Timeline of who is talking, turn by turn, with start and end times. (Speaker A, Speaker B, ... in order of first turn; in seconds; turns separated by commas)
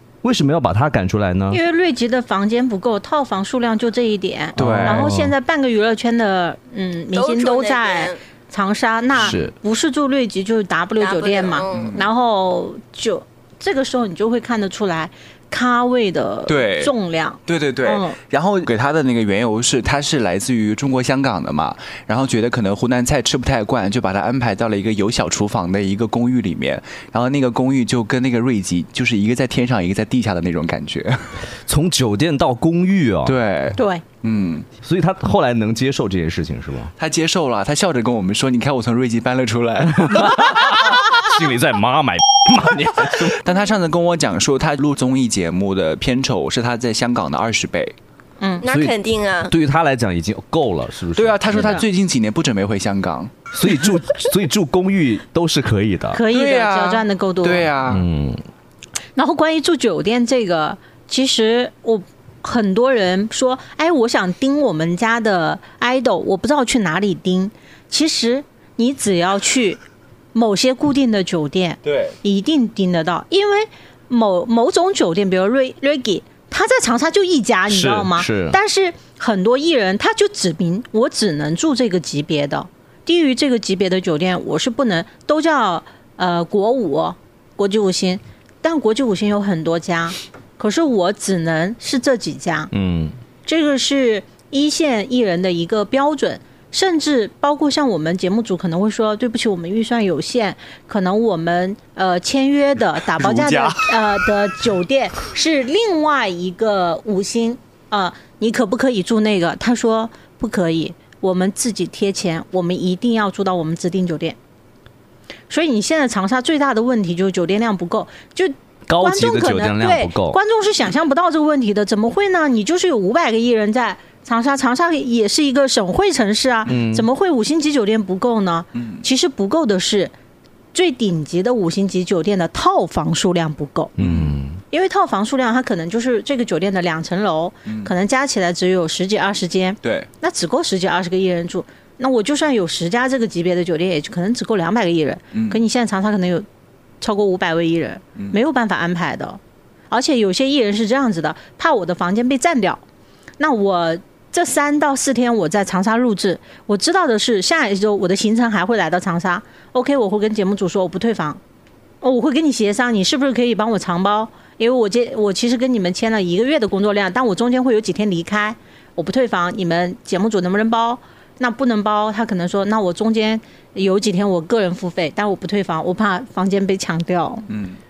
Speaker A: 0.2-1.6, Speaker B: 1.5-18.2, Speaker C: 4.6-5.1, Speaker A: 4.6-5.3, Speaker D: 7.1-8.2, Speaker A: 9.2-9.5, Speaker D: 11.0-12.0, Speaker C: 11.7-12.1, Speaker C: 16.5-16.9, Speaker C: 17.5-31.5, Speaker A: 31.7-33.4, Speaker C: 33.2-34.7, Speaker B: 33.8-34.0, Speaker A: 34.8-36.9, Speaker C: 37.0-41.0, Speaker A: 40.0-43.4, Speaker C: 43.2-48.0, Speaker D: 48.6-49.5, Speaker A: 48.7-49.0, Speaker A: 49.5-51.8, Speaker C: 51.2-53.4, Speaker B: 51.5-51.9, Speaker A: 53.5-56.2, Speaker B: 56.1-57.7, Speaker C: 56.3-58.1, Speaker A: 57.9-58.4, Speaker B: 59.2-69.8, Speaker B: 70.3-92.7, Speaker C: 71.8-72.2, Speaker A: 77.7-78.6, Speaker A: 92.7-93.2, Speaker B: 93.5-114.4, Speaker C: 103.2-103.9, Speaker B: 115.5-130.1, Speaker A: 118.9-120.4, Speaker A: 126.7-127.1, Speaker C: 128.8-129.1, Speaker B: 130.7-133.9, Speaker A: 134.0-134.6, Speaker C: 134.0-134.3, Speaker B: 134.7-146.5, Speaker C: 137.7-137.9, Speaker C: 139.8-140.1, Speaker C: 145.3-145.6, Speaker B: 147.0-149.4, Speaker B: 149.9-152.8, Speaker B: 153.4-161.4, Speaker B: 162.0-177.5, Speaker C: 177.5-177.8